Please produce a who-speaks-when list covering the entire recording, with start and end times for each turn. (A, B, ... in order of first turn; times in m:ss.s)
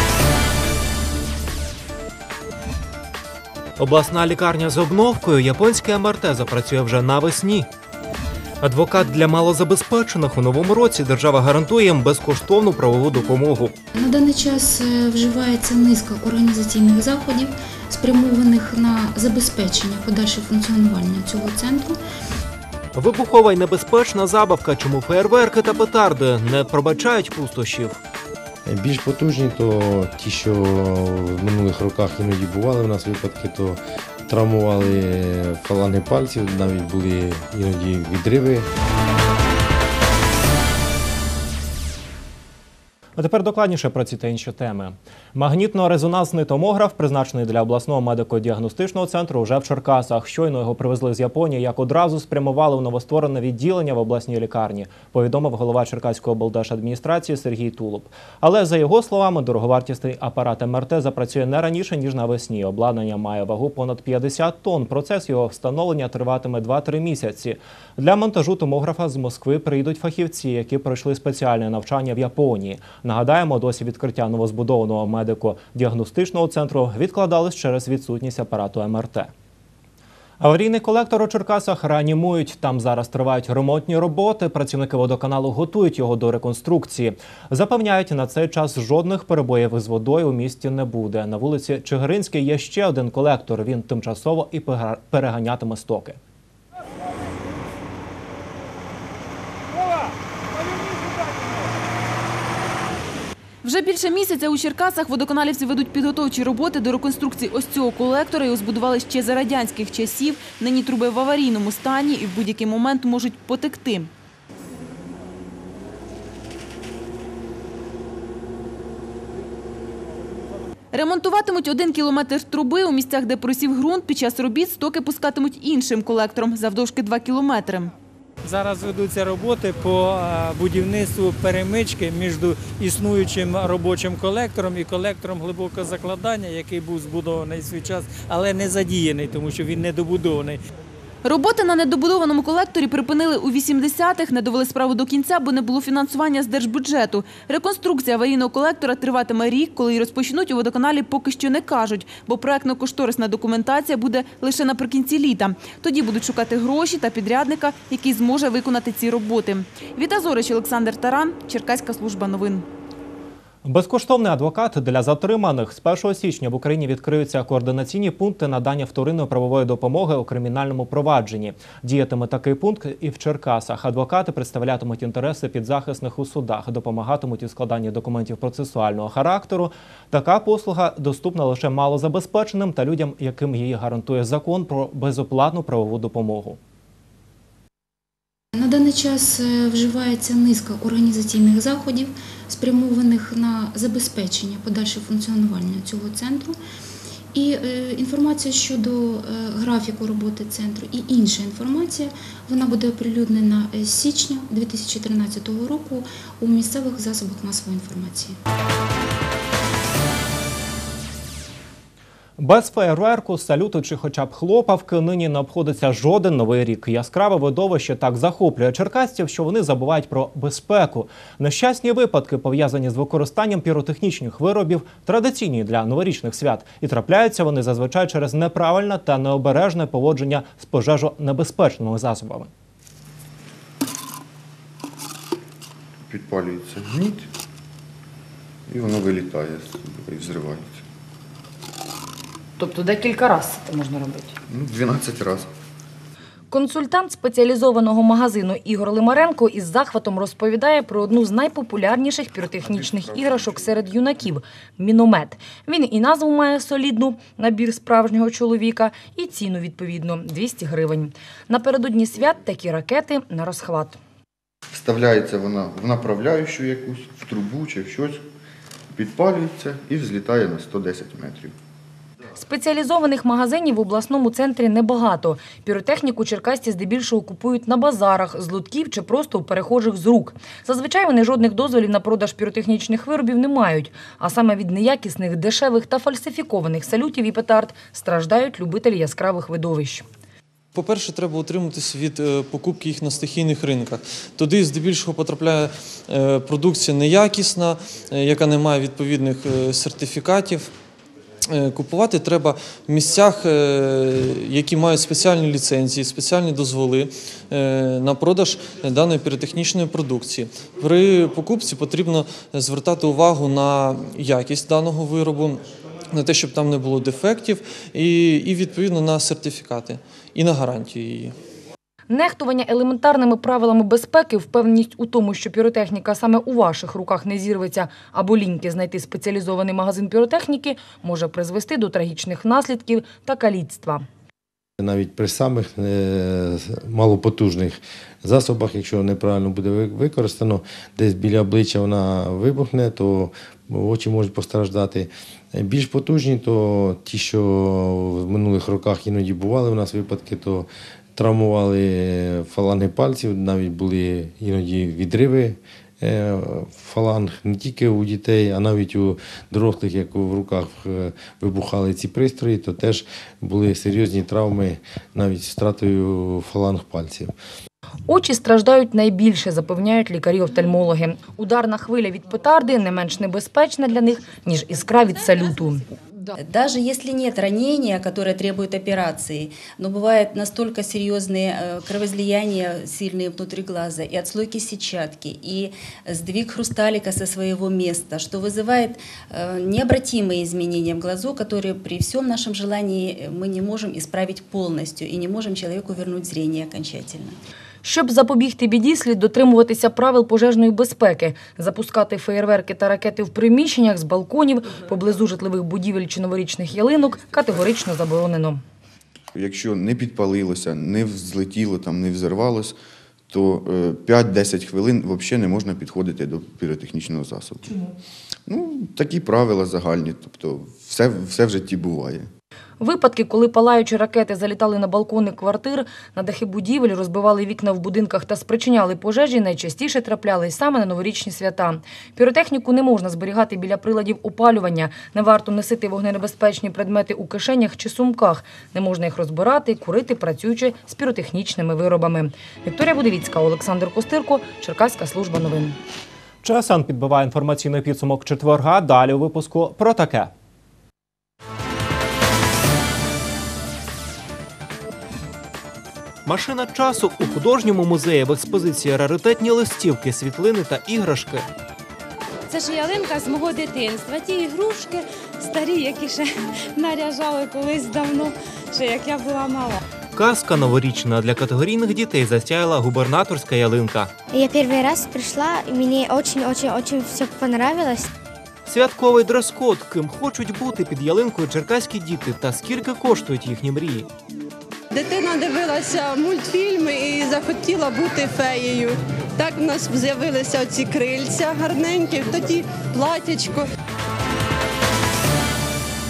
0:03.8-0:07.7 A
0:08.6-0:13.7 A
0:14.0-0:22.0 B
0:23.0-0:28.0 A
0:28.6-0:38.7 C
0:43.2-1:19.3 A
1:20.4-1:36.2 A
1:43.6-1:54.1 D
2:00.9-2:07.9 D
2:08.4-2:20.6 E
2:21.2-2:42.6 D
2:43.6-3:06.6 A
3:08.6-3:16.6 B
3:17.4-3:28.4 B
3:32.4-3:52.5 A
3:56.1-3:57.3 F
3:58.7-4:00.8 F
4:02.6-4:04.3 G
4:04.5-4:05.5 F
4:06.5-4:24.0 G
4:24.7-4:28.2 F
4:28.9-4:31.5 F
4:32.4-4:50.0 G
4:50.8-5:00.7 H
5:01.5-5:21.3 H
5:22.1-5:34.0 G
5:34.8-6:07.3 C
6:08.1-6:15.9 G
6:16.4-6:37.4 I
6:37.8-6:48.6 G
6:49.3-6:52.8 F
6:53.3-6:57.7 F
6:58.5-7:02.3 F
7:02.8-7:25.8 G
7:26.4-7:30.3 A
7:36.3-7:41.5 A
7:42.5-7:49.8 J
7:50.2-7:54.1 A
7:54.4-7:58.0 K
7:58.7-8:04.1 A
8:04.9-8:13.7 L